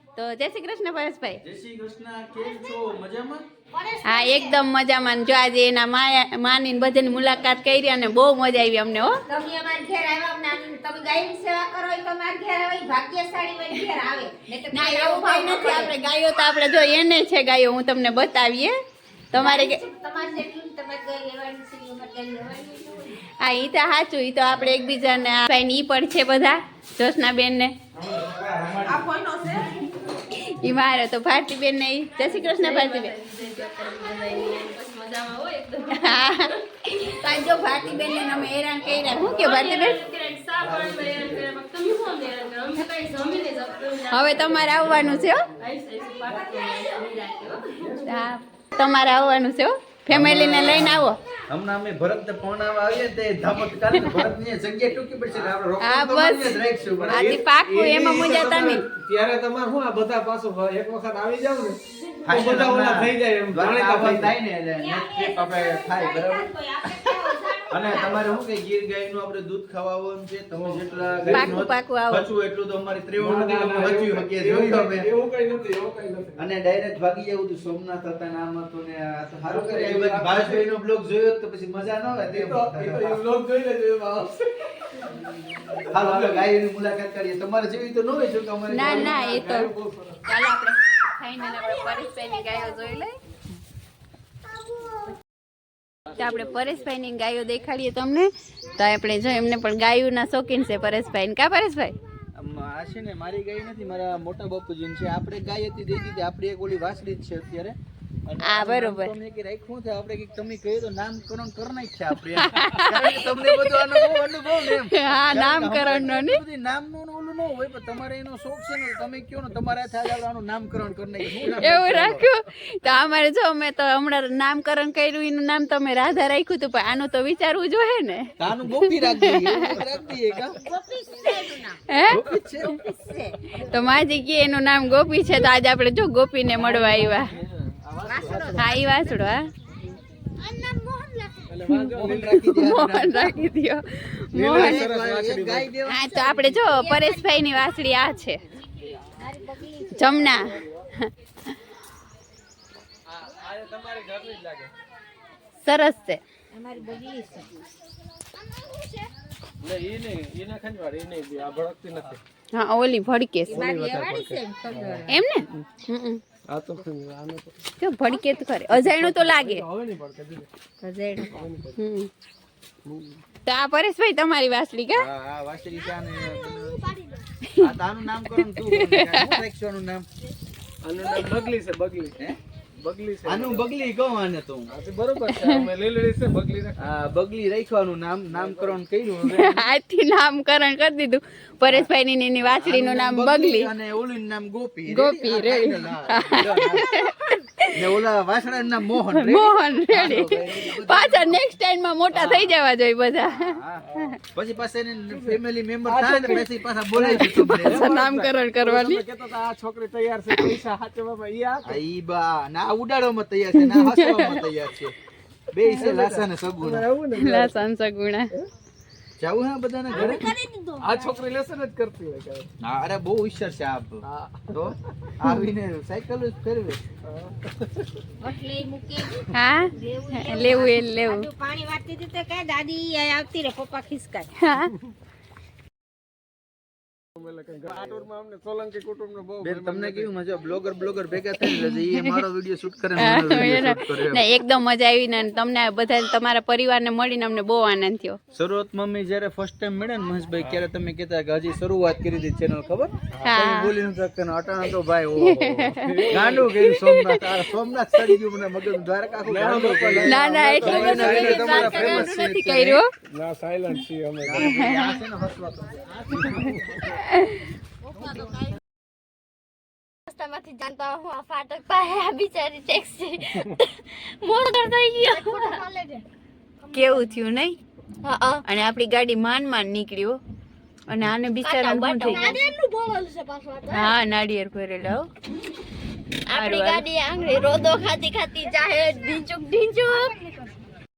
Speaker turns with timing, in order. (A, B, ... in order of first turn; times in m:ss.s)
0:00.2-0:01.4 A
0:01.4-0:03.5 B
0:03.8-0:04.4 C
0:04.0-0:09.2 A
0:09.3-0:14.5 D
0:14.7-0:18.7 A
0:19.3-0:19.8 A
0:19.4-0:23.2 D
0:23.4-0:27.7 A
0:28.3-0:29.1 B
0:29.0-0:29.9 D
0:30.3-0:33.2 A
0:32.4-0:36.5 C
0:36.0-0:40.0 A
0:39.4-0:44.3 C
0:40.2-0:41.5 E
0:44.1-0:45.5 A
0:45.6-0:47.8 C
0:47.8-0:48.2 E
0:48.0-0:51.2 A
0:50.1-0:57.4 B
0:53.9-0:54.2 A
0:55.8-0:58.8 A
0:56.9-1:04.3 E
1:02.2-1:15.1 B
1:04.8-1:08.3 D
1:10.6-1:11.6 E
1:11.3-1:12.3 A
1:13.2-1:16.4 E
1:16.4-1:23.2 B
1:19.5-1:20.7 E
1:22.3-1:26.5 E
1:25.9-1:29.3 B
1:28.7-1:29.7 A
1:28.8-1:30.2 E
1:30.3-1:33.2 A
1:36.1-1:41.9 A
1:42.4-2:02.3 B
1:48.4-1:49.1 A
1:52.4-1:56.4 A
2:01.4-2:09.8 A
2:08.4-2:10.6 B
2:10.6-2:11.8 D
2:11.9-2:12.7 A
2:12.1-2:12.8 B
2:12.7-2:13.4 D
2:13.5-2:17.3 A
2:16.6-2:18.6 B
2:18.1-2:18.5 E
2:18.1-2:18.8 D
2:18.5-2:19.5 A
2:20.4-2:21.3 C
2:20.5-2:21.2 D
2:21.5-2:22.4 E
2:21.7-2:24.9 A
2:21.8-2:23.4 B
2:24.3-2:25.7 E
2:24.4-2:26.4 B
2:25.9-2:28.4 A
2:26.6-2:27.2 D
2:29.2-2:30.4 D
2:29.9-2:31.5 A
2:33.1-2:34.7 E
2:35.6-2:36.2 A
2:36.5-2:37.5 D
2:39.6-2:42.2 E
2:42.5-2:43.7 A
2:43.5-2:45.7 E
2:43.6-2:45.1 D
2:45.1-2:46.2 A
2:46.5-2:47.6 E
2:47.8-2:49.6 A
2:48.7-2:50.5 E
2:50.8-2:52.1 A
2:51.2-2:51.8 E
2:52.9-2:53.2 E
2:53.5-2:55.1 A
2:55.0-2:56.9 B
2:56.4-2:57.1 D
2:57.5-2:57.7 A
2:57.6-3:00.1 B
2:58.4-2:59.4 A
3:00.8-3:02.2 E
3:02.8-3:03.7 E
3:03.2-3:04.7 B
3:04.7-3:06.8 E
3:05.2-3:05.7 A
3:06.8-3:09.7 B
3:08.4-3:08.8 E
3:09.2-3:13.7 A
3:12.4-3:17.0 B
3:14.9-3:17.8 A
3:17.8-3:21.4 B
3:19.1-3:24.2 A
3:22.2-3:22.5 E
3:23.2-3:27.9 B
3:25.1-3:31.8 E
3:27.4-3:29.0 A
3:31.6-3:35.0 B
3:33.6-3:34.4 A
3:35.5-3:36.9 B
3:35.8-3:37.6 E
3:37.2-3:38.3 A
3:39.2-3:40.3 B
3:39.9-3:42.5 E
3:40.0-3:41.2 D
3:42.6-3:46.8 B
3:44.0-3:44.6 E
3:47.1-3:47.9 E
3:48.2-3:54.3 D
3:49.3-3:51.3 A
3:54.4-3:54.7 A
3:57.2-4:00.1 E
3:57.7-3:58.0 B
3:59.4-4:04.2 B
4:01.4-4:02.1 A
4:03.0-4:08.2 A
4:08.3-4:22.8 B
4:13.2-4:13.8 A
4:15.2-4:17.4 A
4:15.5-4:16.5 E
4:19.2-4:22.1 E
4:20.0-4:22.9 A
4:23.1-4:24.5 E
4:24.2-4:26.5 B
4:24.4-4:25.0 A
4:26.2-4:26.8 E
4:26.9-4:27.4 A
4:28.0-4:28.5 C
4:30.1-4:35.6 C
4:35.0-4:36.0 D
4:36.7-4:37.6 A
4:38.0-4:38.4 C
4:38.4-4:40.2 A
4:40.9-4:42.4 A
4:41.4-4:43.6 C
4:42.1-4:43.9 D
4:43.7-4:45.1 A
4:46.3-4:46.9 A
4:46.3-4:50.2 C
4:49.9-4:50.2 D